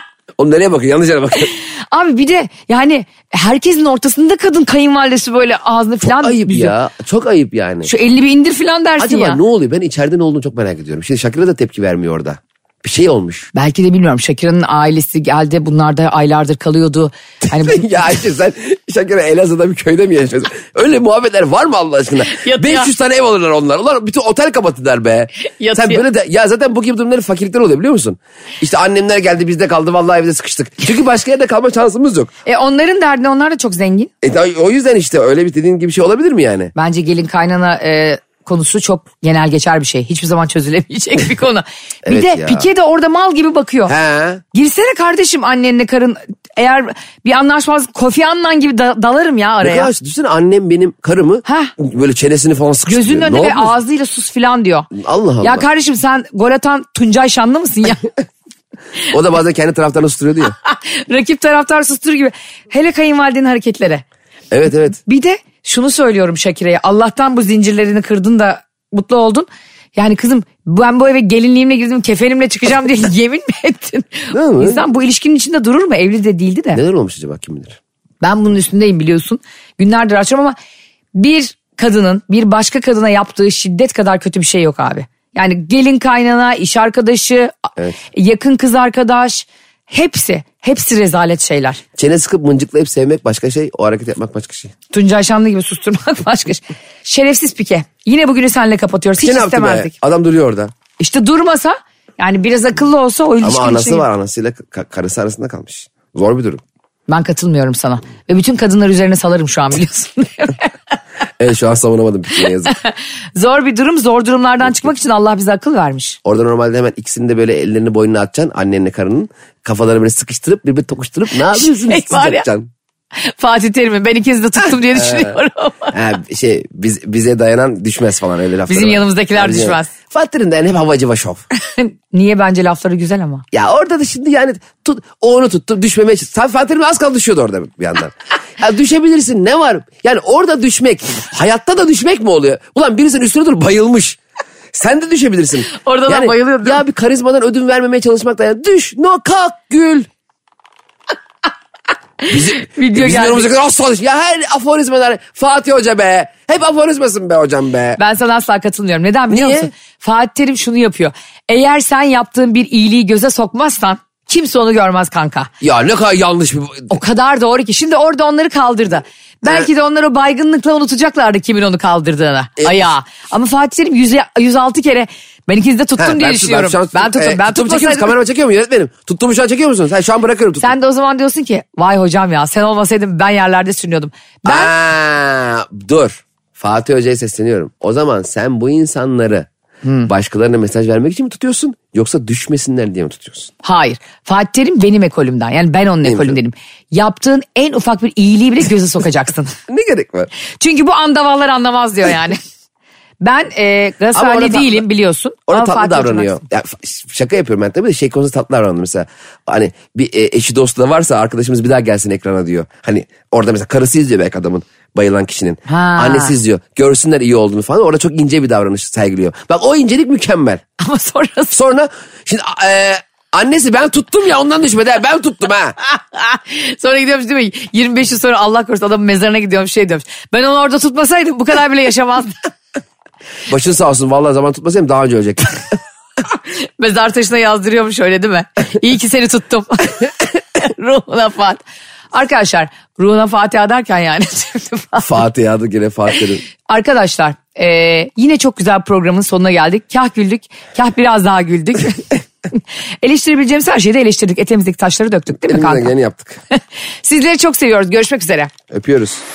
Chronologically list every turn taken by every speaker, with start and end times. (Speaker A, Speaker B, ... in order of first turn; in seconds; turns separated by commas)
Speaker A: 0.4-1.5, Speaker B: 1.6-6.8, Speaker A: 6.0-7.9, Speaker B: 7.8-9.4, Speaker A: 9.0-13.5, Speaker B: 13.5-17.8, Speaker A: 17.5-32.3, Speaker B: 22.2-22.9, Speaker B: 25.4-26.0, Speaker B: 32.5-34.1, Speaker A: 34.2-36.7, Speaker B: 36.8-43.9, Speaker A: 42.0-42.7, Speaker A: 43.9-44.4, Speaker B: 44.5-49.9, Speaker A: 49.6-53.8, Speaker B: 51.5-51.7, Speaker B: 52.9-54.9, Speaker A: 54.9-55.7, Speaker B: 55.4-58.1, Speaker A: 59.1-60.5, Speaker B: 60.6-64.0, Speaker A: 64.5-65.0, Speaker B: 65.0-76.8, Speaker A: 74.3-74.8, Speaker A: 76.7-77.8, Speaker B: 78.2-80.6, Speaker B: 81.2-87.5, Speaker B: 88.1-91.8, Speaker A: 92.0-94.7, Speaker B: 94.9-99.9, Speaker A: 99.2-100.7, Speaker B: 101.0-104.0, Speaker A: 103.4-106.6, Speaker B: 107.1-110.7, Speaker A: 111.4-112.7, Speaker B: 112.7-116.2, Speaker A: 116.2-122.7, Speaker B: 121.4-122.5, Speaker B: 123.2-125.9, Speaker A: 124.9-125.4, Speaker A: 125.9-131.4, Speaker B: 128.7-129.9, Speaker B: 131.6-133.4, Speaker A: 133.5-144.2, Speaker A: 144.7-150.1, Speaker B: 145.7-146.8, Speaker B: 152.2-153.5, Speaker A: 152.3-158.0, Speaker B: 158.0-165.5, Speaker A: 159.3-159.7, Speaker A: 165.6-167.0, Speaker B: 166.9-178.2, Speaker A: 172.6-172.9, Speaker A: 176.0-180.7, Speaker B: 180.6-184.7, Speaker A: 184.4-189.5, Speaker B: 189.8-190.1, Speaker A: 190.1-193.5, Speaker B: 193.6-199.6, Speaker A: 196.0-196.4, Speaker A: 199.7-200.3, Speaker B: 200.6-202.4, Speaker B: 203.2-206.4, Speaker A: 204.1-204.8, Speaker A: 205.5-220.6, Speaker B: 215.7-216.4, Speaker B: 220.8-221.6, Speaker A: 221.5-225.8, Speaker B: 225.9-232.4, Speaker A: 233.5-235.8, Speaker B: 236.3-245.1, Speaker A: 245.0-246.4, Speaker B: 246.7-255.9, Speaker A: 255.3-256.4, Speaker B: 256.6-258.5, Speaker A: 258.7-259.2